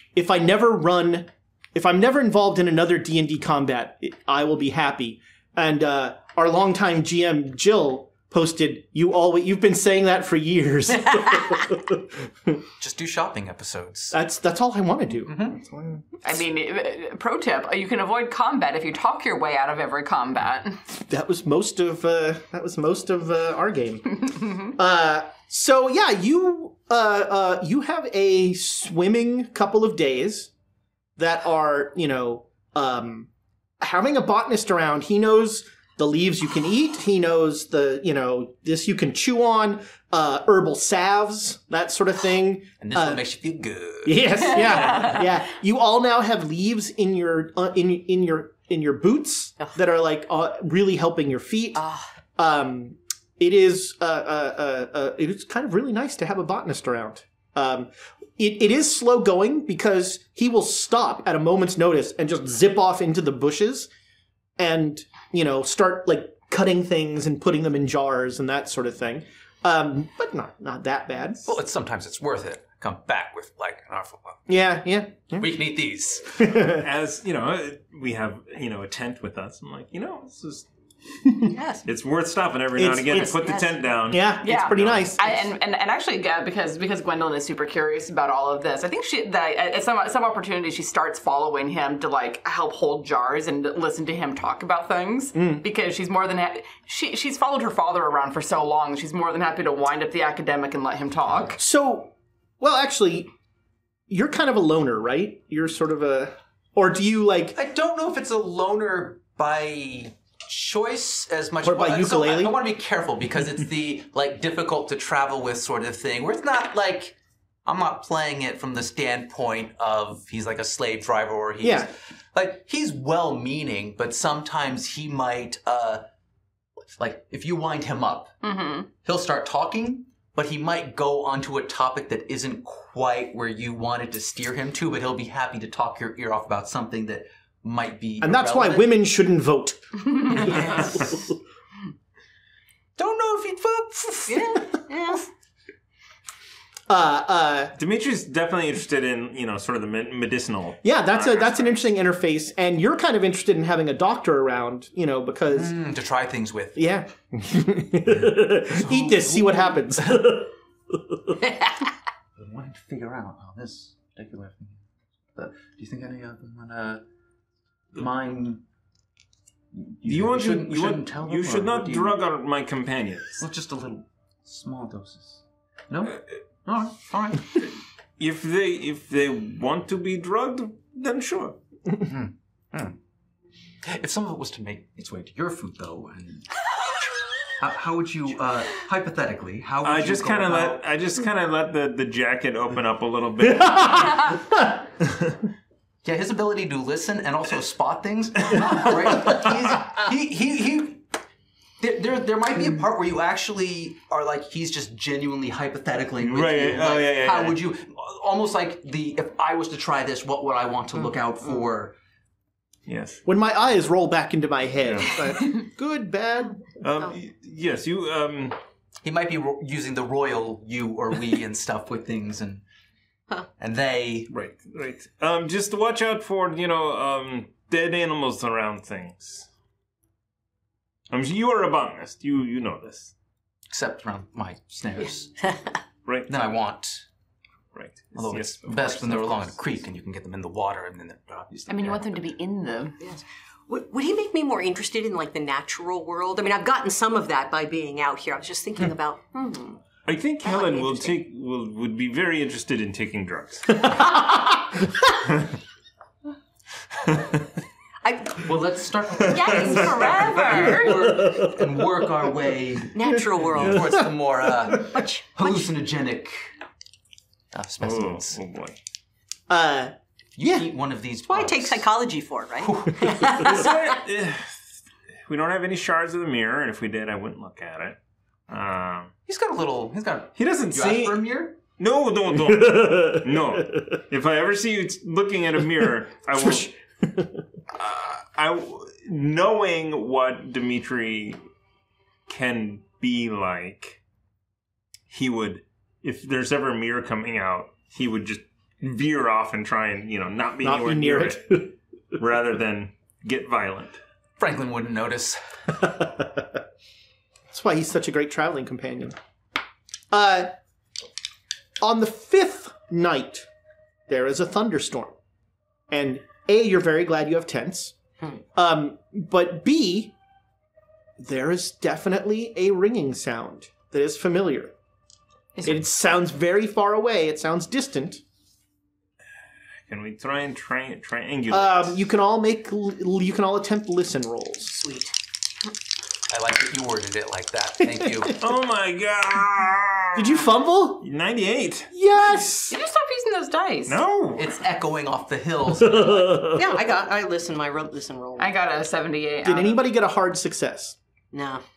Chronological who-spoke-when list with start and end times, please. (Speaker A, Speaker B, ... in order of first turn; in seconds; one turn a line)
Speaker A: 0.1-12.5
Speaker B: 12.8-14.2
Speaker A: 14.1-16.1
Speaker B: 15.3-15.6
Speaker C: 16.2-20.8
Speaker A: 20.9-30.5
Speaker A: 31.2-33.3
Speaker A: 33.8-43.2
Speaker B: 42.8-44.6
Speaker A: 44.0-51.8
Speaker D: 51.8-52.1
Speaker A: 52.4-63.9
Speaker A: 64.6-71.5
Speaker B: 71.5-74.5
Speaker A: 74.5-75.5
Speaker B: 75.4-76.5
Speaker A: 76.4-76.8
Speaker E: 76.6-80.7
Speaker D: 81.5-81.9
Speaker E: 81.8-85.2
Speaker A: 82.8-83.5
Speaker D: 83.1-83.8
Speaker A: 84.1-85.4
Speaker C: 84.4-101.6
Speaker A: 95.3-95.6
Speaker A: 101.6-103.3
Speaker A: 104.1-107.6
Speaker B: 107.5-126.0
Speaker A: 111.6-112.5
Speaker A: 121.6-121.9
Speaker B: 126.9-128.3
Speaker C: 128.4-128.9
Speaker B: 129.0-138.9
Speaker A: 138.2-141.2
Speaker B: 140.3-141.2
Speaker B: 143.0-144.5
Speaker D: 144.3-145.3
Speaker A: 146.9-147.7
Speaker E: 147.8-150.8
Speaker A: 150.8-155.7
Speaker B: 151.2-151.8
Speaker B: 155.5-156.8
Speaker A: 156.8-160.5
Speaker B: 158.7-160.4
Speaker B: 162.4-164.8
Speaker B: 165.3-167.0
Speaker B: 167.9-168.6
Speaker B: 169.7-172.2
Speaker E: 170.0-173.4
Speaker B: 173.4-177.7
Speaker E: 178.2-181.6
Speaker B: 182.0-183.0
Speaker B: 183.8-186.6
Speaker B: 187.6-190.8
Speaker E: 189.8-194.4
Speaker B: 196.0-201.0
Speaker B: 201.8-211.9
Speaker E: 206.2-207.6
Speaker E: 212.9-213.2
Speaker A: 213.3-216.6
Speaker E: 214.9-215.1
Speaker E: 216.8-218.6
Speaker B: 219.0-222.6
Speaker B: 223.6-224.3
Speaker E: 224.3-229.5
Speaker E: 231.1-233.1
Speaker B: 233.7-235.3
Speaker E: 236.1-236.3
Speaker B: 236.3-237.1
Speaker E: 237.7-239.6
Speaker B: 238.1-242.3
Speaker C: 241.7-243.0
Speaker D: 243.0-249.8
Speaker E: 250.1-253.9
Speaker D: 250.4-251.2
Speaker E: 255.2-255.5
Speaker D: 258.0-258.4
Speaker B: 258.4-266.5
Speaker E: 259.2-260.6
Speaker C: 259.3-261.1
Speaker D: 259.6-260.4
Speaker A: 261.2-261.5
Speaker D: 262.9-264.0
Speaker D: 264.7-265.7
Speaker B: 267.5-268.4
Speaker E: 267.8-268.8
Speaker A: 269.5-270.7
Speaker B: 270.4-271.9
Speaker D: 271.3-274.0
Speaker B: 272.6-273.2
Speaker E: 273.3-278.0
Speaker E: 278.5-279.1
Speaker B: 279.3-281.6
Speaker E: 280.4-286.7
Speaker A: 286.4-287.3
Speaker E: 287.7-291.4
Speaker E: 292.3-294.0
Speaker E: 295.1-304.0
Speaker A: 300.6-301.7
Speaker B: 304.4-305.4
Speaker A: 305.8-306.5
Speaker A: 307.5-309.2
Speaker A: 310.1-310.5
Speaker A: 311.8-313.5
Speaker A: 314.1-315.1
Speaker A: 315.9-317.9
Speaker A: 318.6-320.1
Speaker A: 321.2-324.7
Speaker A: 325.6-328.2
Speaker E: 329.9-332.0
Speaker A: 331.5-334.8
Speaker D: 334.8-335.1
Speaker B: 336.3-338.4
Speaker E: 338.4-340.4
Speaker A: 340.1-341.1
Speaker E: 341.0-341.9
Speaker A: 341.9-342.8
Speaker C: 342.7-344.0
Speaker E: 343.9-344.5
Speaker B: 344.4-346.5
Speaker A: 346.1-346.6
Speaker D: 346.5-348.5
Speaker C: 348.4-349.8
Speaker A: 349.4-351.0
Speaker D: 351.3-351.6